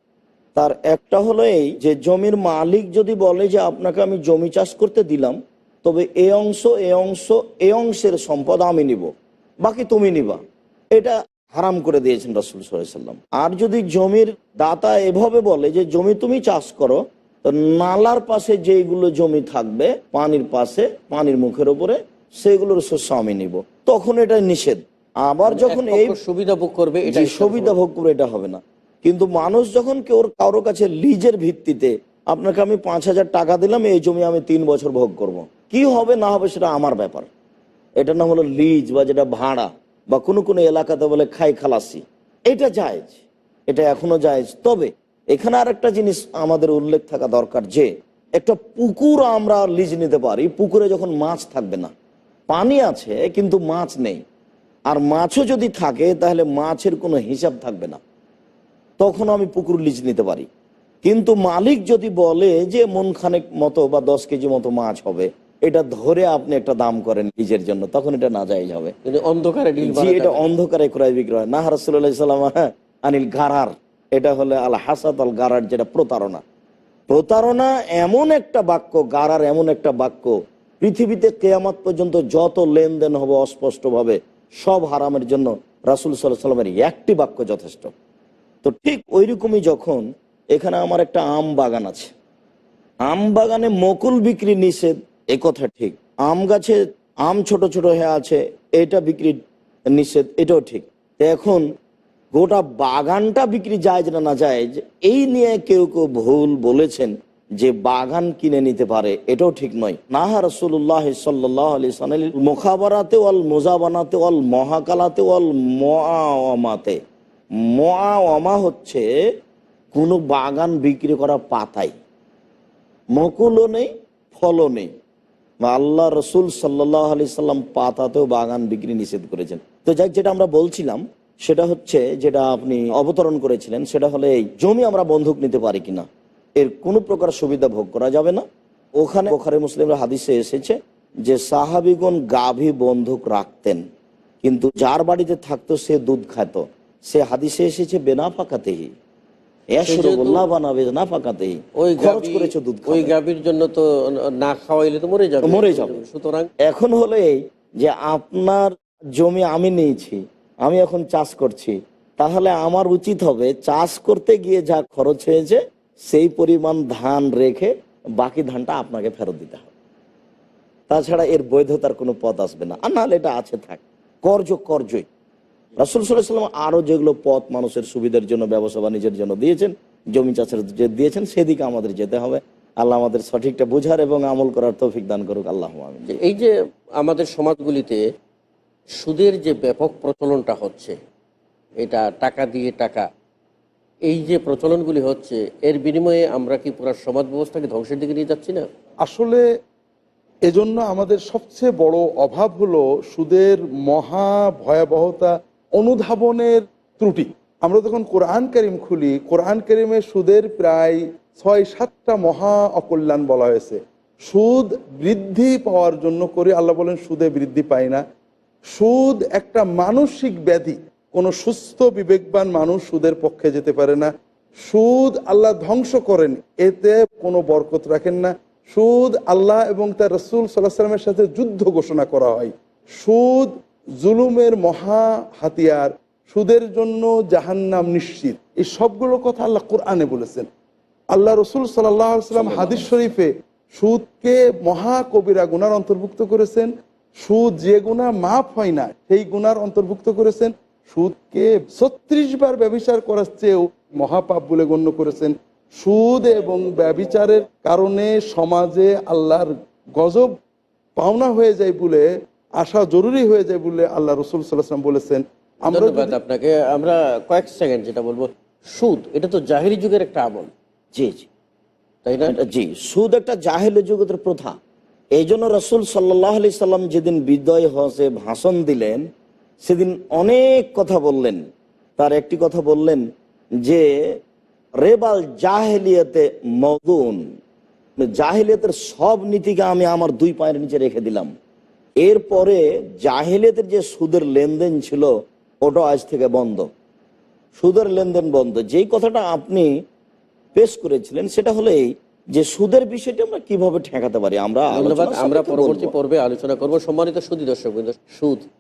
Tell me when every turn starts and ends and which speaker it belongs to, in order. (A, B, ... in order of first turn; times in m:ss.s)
0:00.6-0:09.1 A
0:09.6-0:10.4 A
0:11.0-0:26.2 A
0:25.5-0:27.8 B
0:27.0-0:37.3 A
0:38.0-0:51.9 A
0:52.5-0:54.2 A
0:54.9-0:58.0 A
0:59.0-1:00.5 A
1:01.0-1:08.9 A
1:09.1-1:10.4 B
1:09.8-1:16.4 A
1:17.1-1:27.9 A
1:28.6-1:32.1 A
1:33.0-1:39.4 A
1:39.9-1:41.6 A
1:42.3-1:57.0 A
1:57.7-1:59.0 A
1:59.9-2:01.9 A
2:03.2-2:04.9 A
2:05.6-2:16.1 A
2:16.6-2:18.4 A
2:19.0-2:23.8 A
2:24.4-2:28.9 A
2:29.8-2:33.1 A
2:29.9-2:30.4 B
2:31.8-2:36.5 B
2:35.4-2:36.0 A
2:36.7-2:38.6 A
2:39.2-2:45.6 A
2:46.1-2:49.7 A
2:50.9-2:55.1 A
2:55.8-3:06.2 A
3:06.1-3:08.0 B
3:09.0-3:11.0 B
3:11.8-3:13.1 B
3:14.1-3:18.6 B
3:19.0-3:19.4 C
3:20.5-3:38.0 C
3:38.7-3:44.1 C
3:44.7-3:53.5 C
3:54.0-4:00.5 C
4:01.1-4:06.7 C
4:02.3-4:03.0 B
4:07.2-4:20.4 C
4:21.0-4:22.1 C
4:22.6-4:26.2 C
4:25.7-4:30.5 B
4:31.0-4:31.3 A
4:32.0-4:32.4 B
4:32.3-4:34.6 A
4:35.2-4:39.0 A
4:39.6-4:41.4 A
4:42.0-4:43.0 A
4:44.8-4:47.2 A
4:48.0-4:51.3 A
4:52.0-4:55.1 A
4:55.6-4:56.7 A
4:57.6-4:59.7 A
5:00.6-5:05.9 A
5:04.7-5:08.4 B